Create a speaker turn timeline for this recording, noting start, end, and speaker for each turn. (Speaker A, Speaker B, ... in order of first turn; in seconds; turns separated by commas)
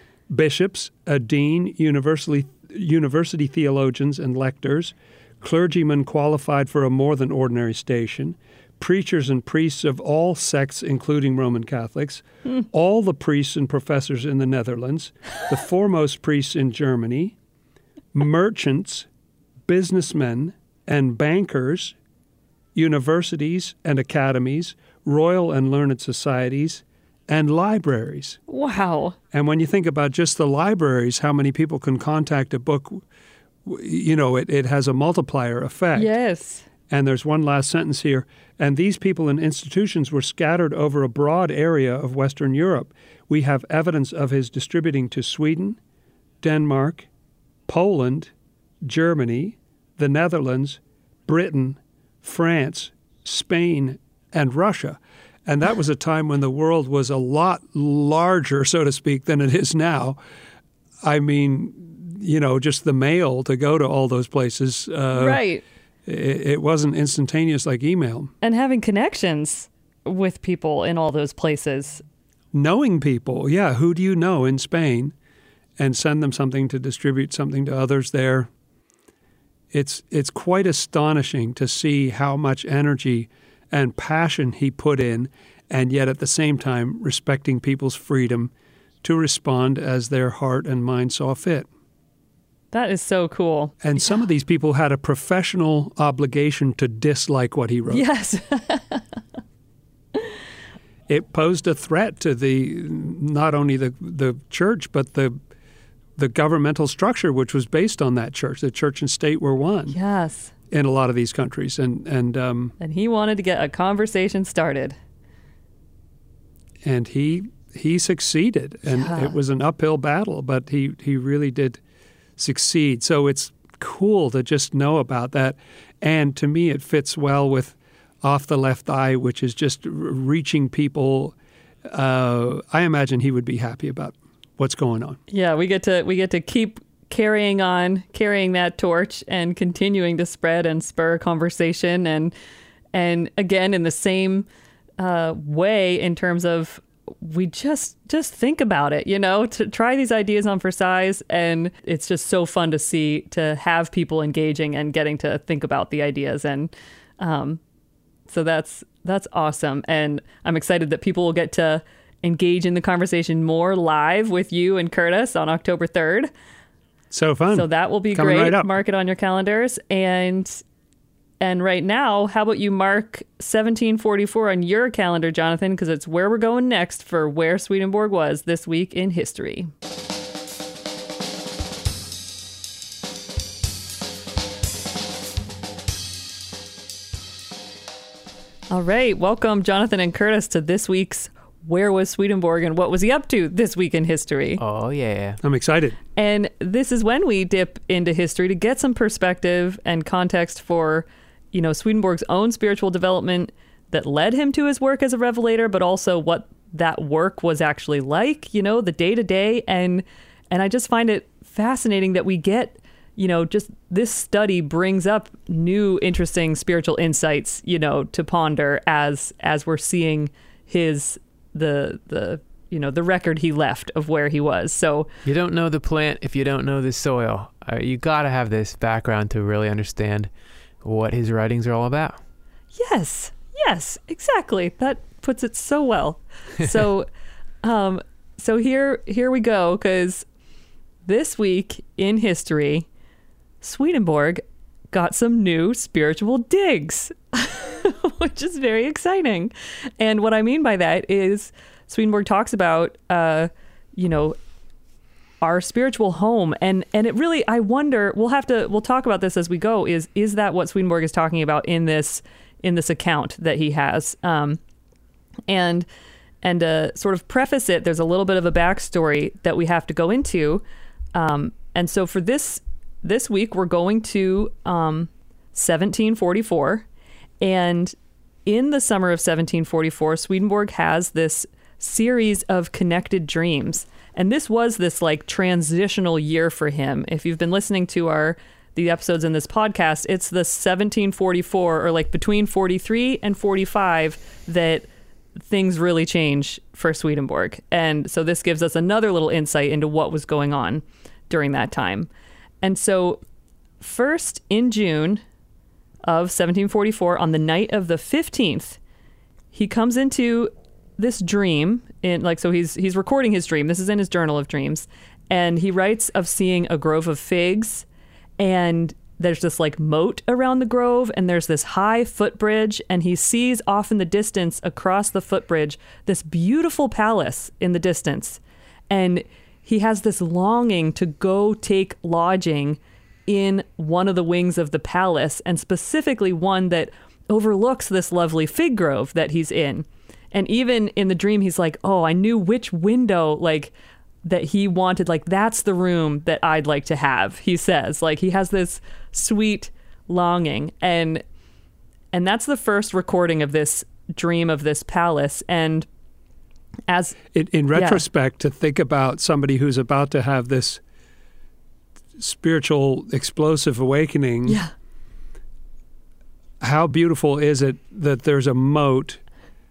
Speaker A: 0.3-17.4, Speaker A: 18.1-19.1, Speaker A: 19.7-21.9, Speaker A: 22.7-28.4, Speaker B: 28.5-29.1, Speaker A: 29.3-33.0, Speaker A: 33.6-36.1, Speaker B: 35.9-36.7, Speaker A: 36.9-45.8, Speaker A: 46.4-47.1, Speaker A: 47.7-48.3, Speaker A: 48.8-60.2, Speaker A: 61.0-65.4, Speaker B: 65.1-65.6, Speaker A: 66.0-68.3, Speaker B: 68.4-72.0, Speaker A: 72.5-75.1, Speaker A: 75.8-78.5, Speaker A: 79.7-88.5, Speaker A: 89.0-91.7, Speaker B: 92.7-94.2, Speaker A: 93.8-98.0, Speaker B: 97.9-99.0, Speaker A: 101.1-105.3, Speaker A: 106.2-110.0, Speaker B: 109.9-110.5, Speaker A: 110.7-112.7, Speaker B: 112.8-115.0, Speaker A: 116.8-121.8, Speaker B: 118.9-119.3, Speaker A: 122.4-131.3, Speaker A: 131.9-135.2, Speaker B: 135.3-142.3, Speaker B: 142.9-144.4, Speaker B: 145.0-157.6, Speaker B: 158.3-166.3, Speaker A: 167.1-168.7, Speaker B: 167.5-170.6, Speaker B: 171.4-179.7, Speaker B: 188.7-194.6, Speaker C: 194.6-195.4, Speaker A: 195.4-196.0, Speaker B: 196.2-225.1, Speaker C: 225.2-230.3, Speaker C: 230.8-232.2, Speaker B: 232.7-237.1, Speaker B: 237.6-240.2, Speaker B: 241.1-242.8, Speaker B: 243.6-254.3, Speaker B: 255.4-264.6, Speaker B: 265.5-265.9, Speaker B: 266.4-270.6, Speaker B: 271.1-276.9, Speaker B: 277.4-277.9, Speaker B: 278.4-294.9, Speaker B: 295.4-302.1, Speaker B: 302.6-303.2, Speaker B: 303.8-305.2, Speaker B: 306.1-308.8, Speaker B: 309.5-317.9, Speaker B: 318.4-343.7, Speaker B: 344.2-351.2, Speaker B: 352.1-355.9, Speaker B: 356.9-357.2, Speaker A: 357.3-360.8, Speaker B: 357.7-358.0, Speaker A: 362.2-364.6, Speaker A: 366.6-369.2